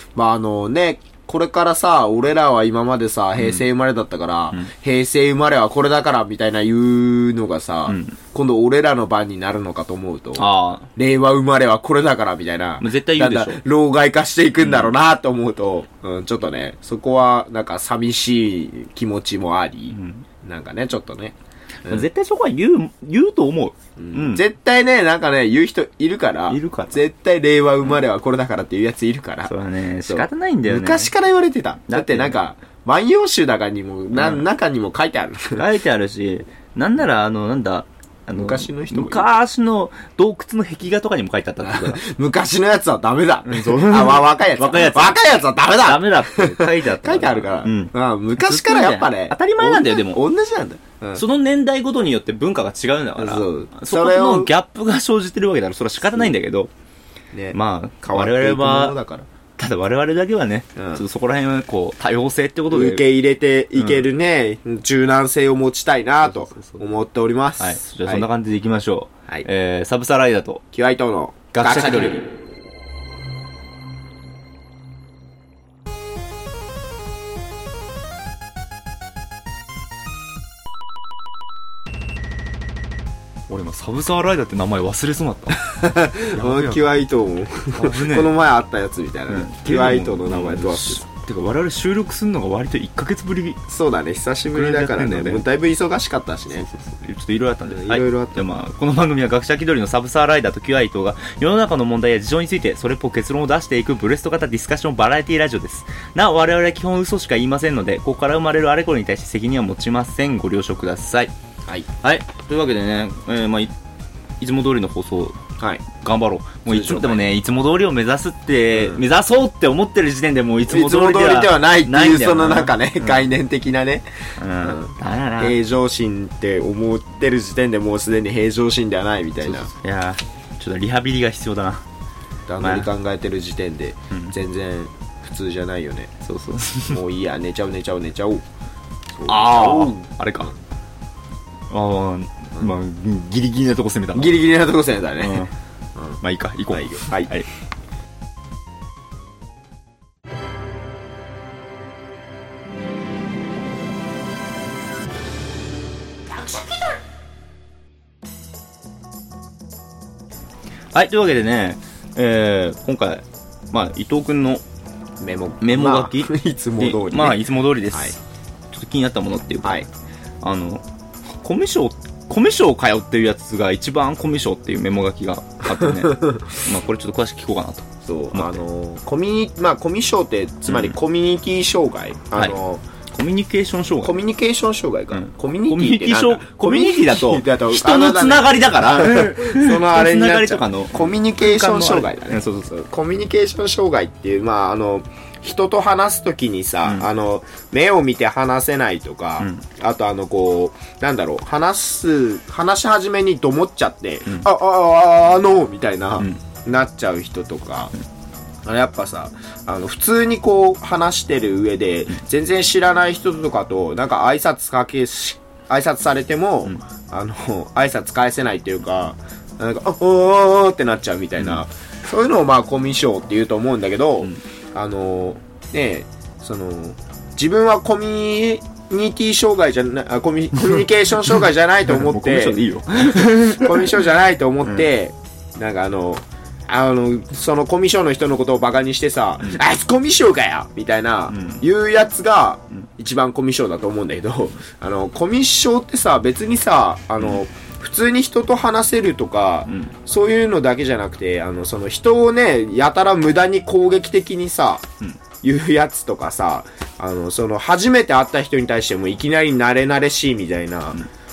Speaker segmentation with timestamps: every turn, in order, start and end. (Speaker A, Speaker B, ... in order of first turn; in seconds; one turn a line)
Speaker A: 0.1-22.1
Speaker B: 3.4-3.6
Speaker B: 7.9-8.2
Speaker B: 10.4-10.9
Speaker B: 12.8-13.6
Speaker B: 14.6-14.9
Speaker B: 19.9-20.2
Speaker B: 21.9-24.4
Speaker A: 24.0-29.5
Speaker B: 26.5-27.0
Speaker B: 29.5-31.1
Speaker A: 30.1-35.6
Speaker B: 31.9-32.4
Speaker B: 34.1-34.5
Speaker B: 35.6-42.0
Speaker A: 38.4-39.3
Speaker A: 41.6-51.2
Speaker B: 43.5-45.2
Speaker B: 45.8-50.2
Speaker B: 51.1-56.7
Speaker A: 53.2-54.5
Speaker A: 57.3-59.3
Speaker B: 57.5-59.0
Speaker B: 59.6-63.0
Speaker A: 60.8-61.0
Speaker A: 62.7-68.3
Speaker B: 63.8-64.1
Speaker B: 66.2-66.8
Speaker B: 67.6-70.6
Speaker A: 70.7-72.2
Speaker B: 71.5-72.2
Speaker B: 83.5-85.7
Speaker A: 85.7-91.0
Speaker B: 86.3-86.9
Speaker B: 87.7-88.3
Speaker B: 89.3-93.6
Speaker A: 93.7-96.7
Speaker B: 94.5-95.4
Speaker B: 96.7-111.3
Speaker A: 97.7-98.4
Speaker B: 112.0-113.7
Speaker B: 114.4-115.4
Speaker A: 115.6-115.8
Speaker B: 115.9-123.3
Speaker A: 116.7-117.2
Speaker A: 118.7-119.0
Speaker A: 120.7-124.1
Speaker B: 124.4-125.6
Speaker A: 124.6-129.7
Speaker B: 129.4-131.8
Speaker A: 132.5-136.1
Speaker B: 132.6-132.9
Speaker B: 136.2-137.0
Speaker A: 136.9-138.4
Speaker A: 139.2-140.0
Speaker B: 139.3-140.5
Speaker B: 141.7-144.4
Speaker A: 144.1-145.4
Speaker B: 145.2-145.5
Speaker B: 146.2-147.5
Speaker A: 146.7-147.3
Speaker B: 160.9-164.6
Speaker A: 165.2-168.2
Speaker B: 165.6-168.2
Speaker B: 168.7-169.9
Speaker B: 170.4-170.8
Speaker B: 171.4-178.6
Speaker A: 175.8-176.6
Speaker A: 178.1-182.8
Speaker B: 180.7-181.0
Speaker B: 183.1-184.2
Speaker A: 184.0-207.9
Speaker B: 185.1-192.7
Speaker B: 199.4-199.7
Speaker A: 208.7-254.9
Speaker B: 231.3-234.1
Speaker B: 241.3-241.6
Speaker B: 249.7-249.9
Speaker A: 255.4-261.0